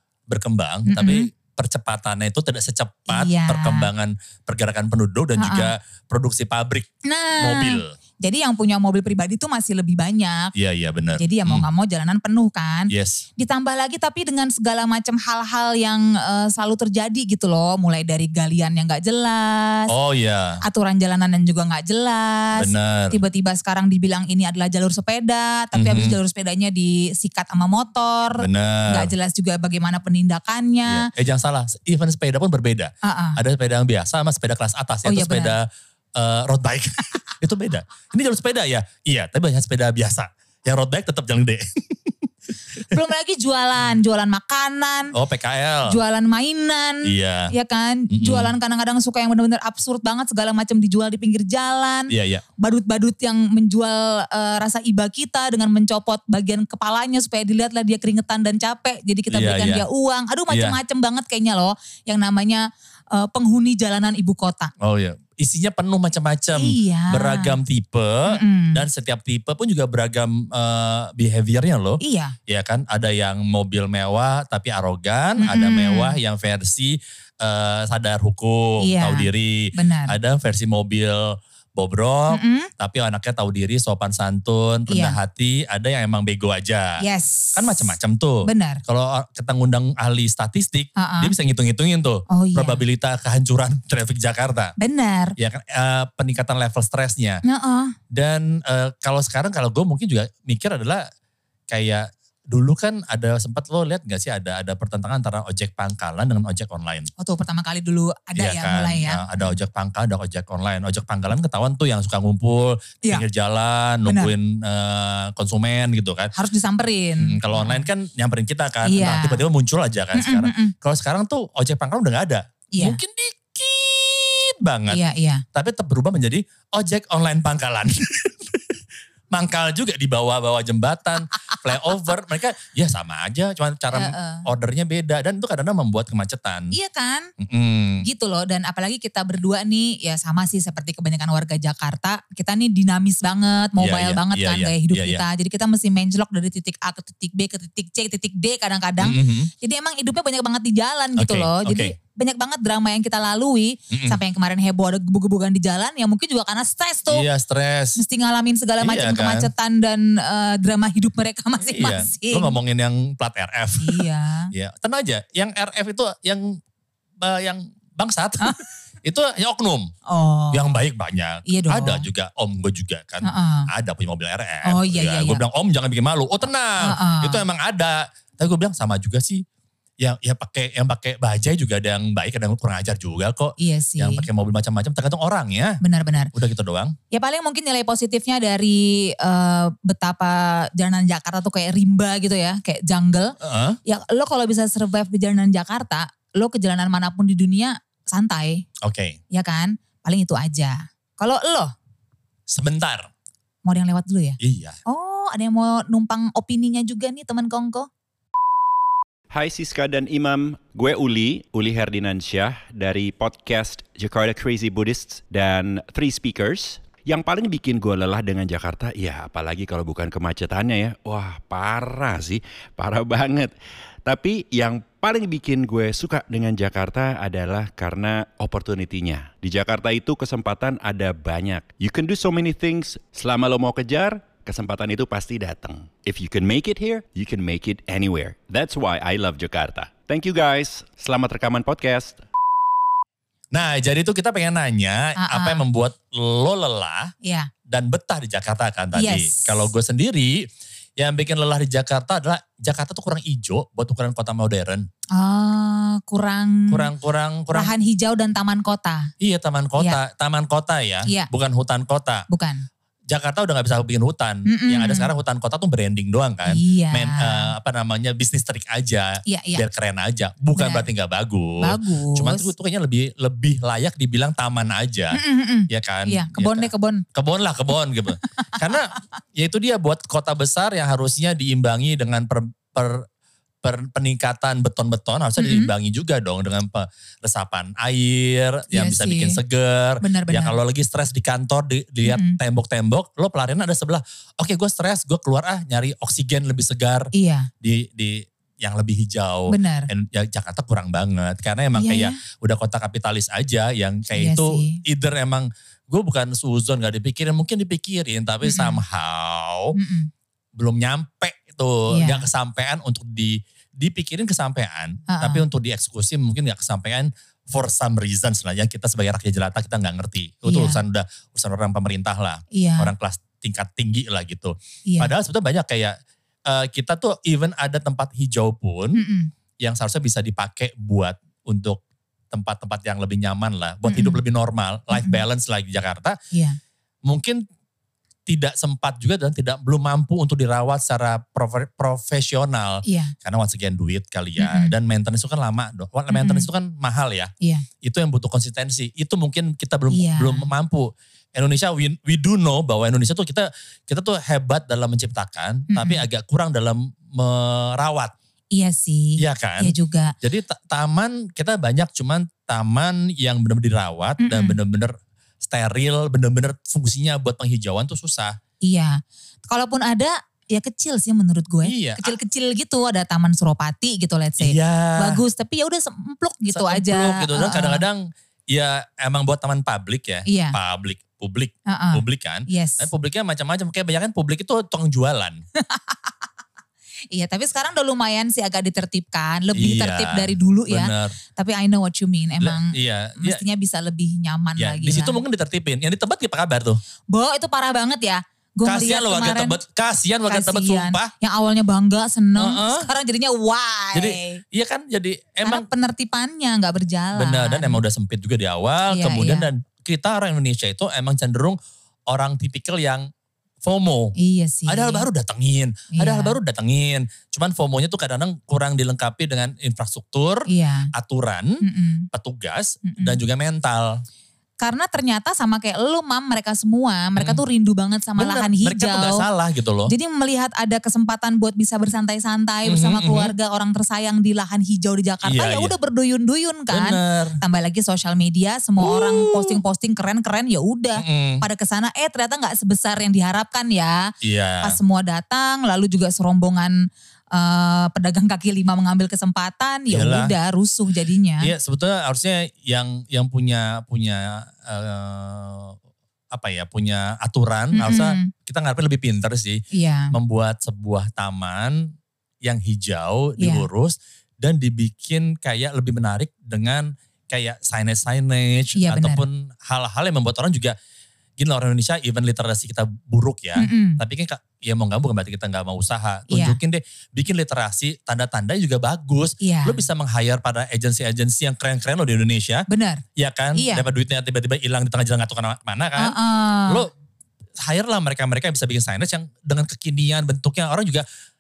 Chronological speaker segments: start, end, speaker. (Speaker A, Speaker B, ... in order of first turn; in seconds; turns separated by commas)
Speaker A: 0.3-7.9, Speaker B: 0.8-1.3, Speaker B: 3.1-3.9, Speaker B: 5.4-5.7, Speaker B: 7.0-10.5, Speaker A: 10.6-11.7, Speaker B: 11.2-19.9, Speaker A: 12.9-13.2, Speaker A: 19.9-20.6, Speaker B: 20.6-31.1, Speaker A: 22.6-23.2, Speaker A: 25.7-26.1, Speaker A: 28.4-29.1, Speaker A: 30.9-42.1, Speaker B: 33.0-33.4, Speaker B: 35.0-35.5, Speaker B: 42.9-45.1, Speaker A: 45.1-46.0, Speaker B: 45.9-64.7, Speaker A: 47.0-47.5, Speaker A: 48.1-48.5, Speaker A: 52.1-52.4, Speaker A: 59.3-59.8, Speaker A: 60.5-60.8, Speaker A: 64.8-87.0, Speaker B: 66.5-67.5, Speaker B: 68.3-68.8, Speaker B: 72.0-72.3, Speaker B: 75.4-76.2, Speaker B: 78.8-80.1, Speaker B: 82.3-82.7, Speaker B: 84.9-85.2, Speaker B: 87.0-87.9, Speaker A: 87.5-94.7, Speaker B: 88.4-88.8, Speaker B: 91.0-91.3, Speaker B: 92.3-92.8, Speaker B: 94.8-95.3, Speaker A: 95.4-97.4, Speaker B: 97.4-97.9, Speaker A: 98.1-101.0, Speaker A: 101.7-107.1, Speaker B: 107.2-109.6, Speaker A: 108.3-116.3, Speaker B: 114.0-114.3, Speaker B: 116.3-117.9, Speaker A: 117.2-125.0, Speaker B: 118.8-119.4, Speaker B: 120.1-120.7, Speaker B: 122.7-123.0, Speaker B: 124.9-125.4, Speaker A: 125.5-128.7, Speaker A: 129.3-136.7, Speaker B: 133.9-134.5, Speaker B: 136.7-137.3, Speaker A: 137.4-138.0, Speaker B: 138.0-157.2, Speaker A: 143.8-145.2, Speaker A: 149.0-149.5, Speaker A: 151.2-151.9, Speaker A: 153.9-154.2, Speaker A: 157.1-158.0, Speaker B: 157.9-162.5, Speaker A: 158.8-159.5, Speaker A: 161.6-166.6, Speaker B: 163.8-164.5, Speaker A: 167.2-169.9, Speaker B: 170.1-170.7, Speaker A: 170.5-179.4, Speaker B: 171.4-172.1, Speaker B: 173.2-173.7, Speaker B: 174.6-175.4, Speaker B: 176.8-177.4, Speaker A: 180.0-185.8, Speaker B: 183.6-184.2, Speaker B: 185.8-186.3, Speaker A: 186.3-186.9, Speaker B: 187.1-198.6, Speaker A: 193.4-193.8, Speaker A: 198.8-199.2, Speaker B: 199.3-201.7, Speaker A: 202.5-203.1, Speaker B: 203.6-207.9, Speaker A: 204.4-204.8, Speaker C: 209.3-223.5, Speaker C: 224.1-242.2, Speaker A: 243.5-247.1, Speaker B: 245.2-245.6, Speaker B: 247.2-247.5, Speaker A: 247.7-254.9, Speaker B: 248.9-249.7, Speaker B: 255.1-256.9, Speaker A: 256.7-257.7, Speaker B: 257.5-259.1, Speaker A: 259.2-262.2, Speaker B: 262.3-262.6, Speaker A: 263.1-283.1, Speaker B: 264.4-265.1, Speaker B: 266.4-267.5, Speaker B: 269.2-269.6, Speaker B: 270.5-270.9, Speaker B: 271.6-272.5, Speaker B: 275.1-277.0, Speaker A: 283.6-309.7, Speaker B: 285.4-285.7, Speaker B: 288.7-289.4, Speaker B: 290.0-290.6, Speaker B: 292.0-292.4, Speaker B: 297.1-297.5, Speaker B: 299.5-299.9, Speaker B: 301.7-302.2, Speaker B: 304.1-304.8, Speaker B: 308.4-308.8, Speaker B: 309.7-310.1, Speaker A: 310.6-329.0, Speaker B: 311.9-312.2, Speaker B: 315.1-315.4, Speaker B: 320.4-320.8, Speaker B: 322.5-322.9, Speaker B: 324.9-325.1, Speaker B: 328.9-329.3, Speaker A: 329.6-336.2, Speaker B: 333.9-334.2, Speaker B: 334.9-335.2, Speaker B: 336.3-336.6, Speaker A: 337.1-337.4, Speaker A: 338.3-358.1, Speaker B: 342.8-343.1, Speaker B: 344.4-344.7, Speaker B: 346.1-346.5, Speaker B: 349.9-350.5, Speaker B: 355.7-356.0, Speaker B: 358.5-360.1, Speaker A: 359.2-368.4, Speaker B: 364.2-364.6, Speaker B: 368.6-377.8, Speaker A: 371.6-372.2, Speaker A: 374.4-375.2, Speaker A: 376.5-385.4, Speaker B: 380.3-380.6, Speaker B: 381.7-382.9, Speaker B: 385.6-386.1, Speaker B: 387.1-395.2, Speaker A: 389.5-391.1, Speaker A: 392.4-393.4, Speaker A: 394.6-396.8, Speaker B: 397.1-399.6, Speaker A: 398.6-401.1, Speaker B: 400.3-404.4, Speaker A: 402.4-402.9, Speaker A: 403.9-405.7, Speaker B: 405.4-407.8, Speaker A: 407.1-413.1, Speaker B: 408.9-409.5, Speaker A: 413.6-414.1, Speaker B: 414.2-415.1, Speaker A: 414.7-424.0, Speaker B: 415.9-416.4, Speaker B: 420.5-420.9, Speaker B: 421.6-422.1, Speaker B: 422.8-423.2, Speaker B: 424.6-429.2, Speaker A: 428.2-429.9, Speaker B: 429.9-451.5, Speaker A: 432.6-433.3, Speaker A: 435.2-435.7, Speaker A: 436.7-437.4, Speaker A: 438.8-439.6, Speaker A: 441.0-441.4, Speaker A: 444.2-444.8, Speaker A: 449.9-450.3, Speaker A: 451.4-455.8, Speaker A: 456.3-470.8, Speaker B: 457.7-458.3, Speaker B: 459.7-460.1, Speaker B: 463.4-463.7, Speaker B: 468.8-469.2, Speaker A: 471.4-486.1, Speaker B: 473.6-474.0, Speaker B: 476.3-476.6, Speaker B: 479.4-479.8, Speaker B: 482.7-483.0, Speaker B: 483.5-483.8, Speaker B: 486.0-486.9, Speaker A: 487.6-491.0